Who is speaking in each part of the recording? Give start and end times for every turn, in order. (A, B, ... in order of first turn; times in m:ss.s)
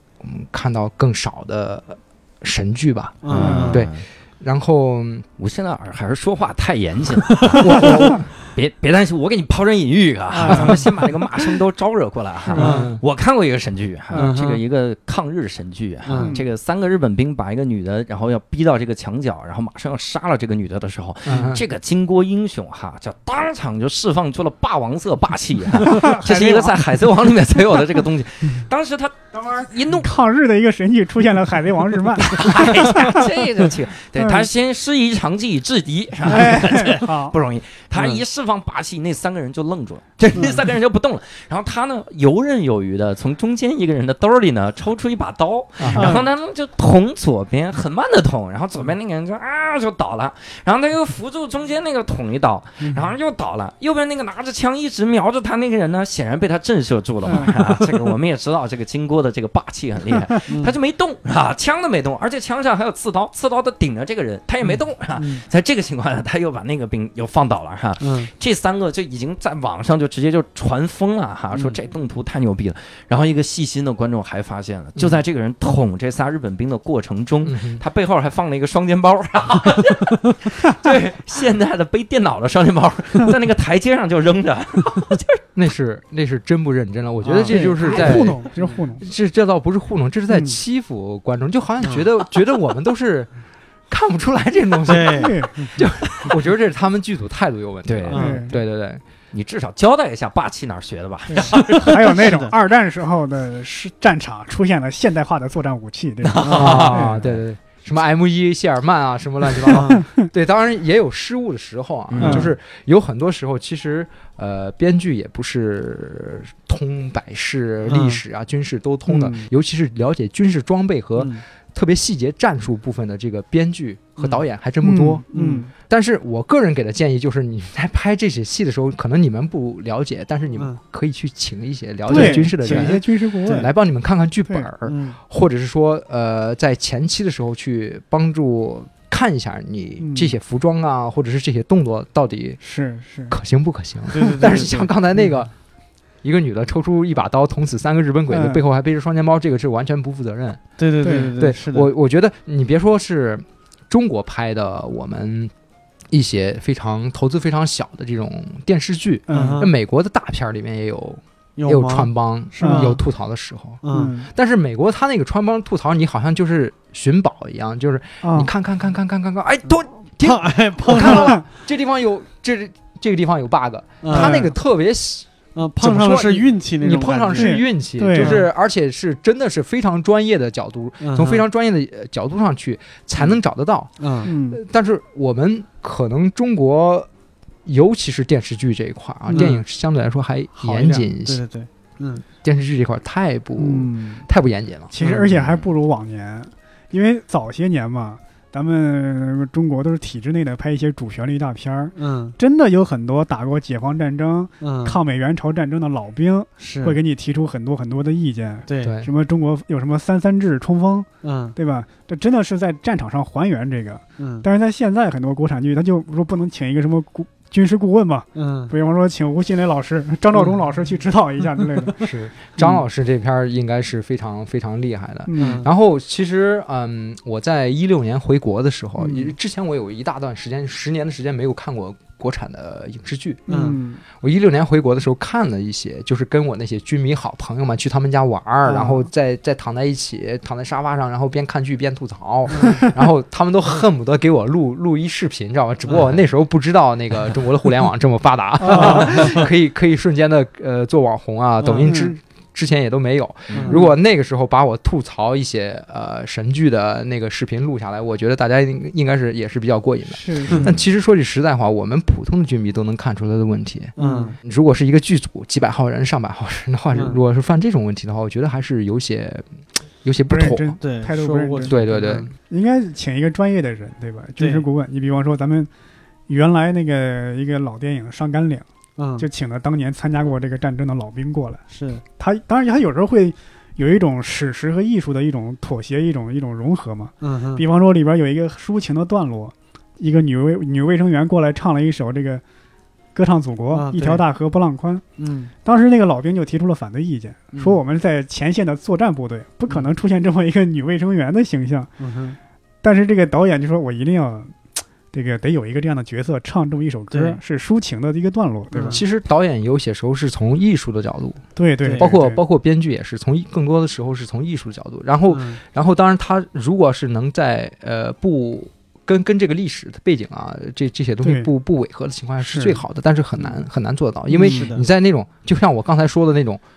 0:00.2-0:05.2 A
0:03.2-0:03.8 B
0:03.3-0:04.0 C
0:03.4-0:03.8 D
0:05.4-0:30.1 C
0:07.4-0:07.7 B
0:07.6-0:08.3 A
0:10.3-0:10.8 D
0:10.5-0:10.8 A
0:12.5-0:12.8 D
0:12.5-0:12.9 B
0:12.6-0:13.0 A
0:14.1-0:14.6 B
0:16.0-0:16.4 B
0:16.1-0:16.4 D
0:21.3-0:21.6 A
0:25.8-0:26.8 D
0:29.9-0:33.4 D
0:32.2-1:25.4 C
0:34.2-0:34.5 D
0:36.2-0:37.4 D
0:37.9-0:38.2 B
0:45.8-0:46.2 A
0:45.9-0:46.2 D
0:45.9-0:46.2 B
0:57.2-0:57.5 D
1:00.5-1:00.7 B
1:08.0-1:08.3 B
1:17.4-1:17.8 A
1:25.5-1:28.5 A
1:27.2-1:28.8 B
1:27.5-1:29.0 D
1:29.0-1:33.3 A
1:30.3-1:30.6 D
1:31.8-1:32.1 B
1:33.9-1:39.0 A
1:34.8-1:35.5 B
1:35.1-1:35.7 D
1:37.8-1:38.3 C
1:38.1-1:38.5 B
1:38.1-1:38.5 D
1:39.3-1:42.2 C
1:41.3-1:47.2 D
1:41.5-1:42.5 B
1:46.2-1:47.4 C
1:46.4-1:47.0 B
1:46.5-2:05.2 A
1:49.6-1:50.0 B
1:52.1-1:52.5 C
1:52.2-1:52.4 B
1:52.2-1:52.5 D
1:57.8-1:58.2 B
1:59.1-1:59.5 D
2:01.2-2:01.4 B
2:04.2-2:04.4 B
2:04.8-2:05.7 D
2:05.3-2:05.7 B
2:05.9-2:22.6 A
2:12.1-2:13.7 B
2:12.1-2:13.7 D
2:14.8-2:15.2 B
2:20.0-2:20.3 D
2:22.6-2:23.4 D
2:23.3-2:25.5 A
2:24.1-2:24.9 B
2:26.2-2:30.6 A
2:28.3-2:28.6 D
2:30.8-2:31.9 B
2:31.0-2:31.3 D
2:31.3-2:35.5 A
2:36.1-2:55.3 A
2:39.3-2:39.7 D
2:39.3-2:39.7 B
2:41.6-2:43.0 B
2:42.6-2:43.0 D
2:43.8-2:44.1 B
2:43.9-2:44.3 D
2:48.2-2:48.5 D
2:50.2-2:51.5 B
2:51.0-2:51.4 D
2:54.0-2:54.4 B
2:54.1-2:54.5 D
2:55.5-2:58.5 B
2:55.8-3:07.1 A
2:57.3-2:58.4 D
3:01.0-3:01.4 B
3:04.0-3:04.3 B
3:04.2-3:04.6 D
3:07.6-3:11.4 A
3:09.3-3:09.6 D
3:09.3-3:09.6 B
3:10.6-3:12.2 B
3:12.4-3:14.9 A
3:13.6-3:14.2 D
3:14.9-3:42.6 D
3:15.0-3:15.3 B
3:15.2-3:15.7 C
3:22.0-3:22.4 B
3:24.6-3:25.0 B
3:26.6-3:27.0 B
3:28.6-3:29.0 B
3:28.8-3:29.1 A
3:31.2-3:31.6 B
3:34.2-3:34.5 B
3:38.3-3:38.7 B
3:41.6-3:41.9 B
3:42.5-3:53.4 A
3:45.2-3:45.6 D
3:45.4-3:45.7 B
3:49.0-3:49.3 D
3:53.5-3:54.0 D
3:53.5-3:53.8 B
3:54.1-4:29.4 A
3:58.7-3:59.1 D
4:02.5-4:02.9 B
4:05.8-4:06.1 B
4:08.6-4:09.4 D
4:08.6-4:09.4 B
4:11.6-4:12.1 B
4:11.8-4:12.2 D
4:13.5-4:13.9 B
4:20.1-4:20.7 D
4:24.0-4:24.4 B
4:24.0-4:24.3 D
4:26.9-4:27.2 B
4:30.0-4:30.8 A
4:30.3-4:31.8 D
4:30.8-4:32.3 B
4:31.6-4:32.3 A
4:32.5-4:35.7 D
4:34.4-4:34.6 B
4:36.3-4:38.6 D
4:39.0-4:39.3 B
4:39.2-4:52.4 D
4:41.7-4:42.0 B
4:47.2-4:47.6 B
4:53.1-4:55.0 D
4:53.7-4:54.2 B
4:55.2-4:55.5 B
4:55.6-5:01.9 D
4:57.5-4:57.8 B
5:02.0-5:02.4 B
5:02.8-5:04.6 D
5:05.1-5:09.0 D
5:07.1-5:07.4 B
5:08.7-5:09.0 B
5:08.9-5:26.6 A
5:11.6-5:12.4 D
5:11.8-5:12.1 B
5:15.3-5:15.6 B
5:21.2-5:21.5 D
5:22.4-5:22.8 D
5:24.3-5:24.7 D
5:24.3-5:24.8 B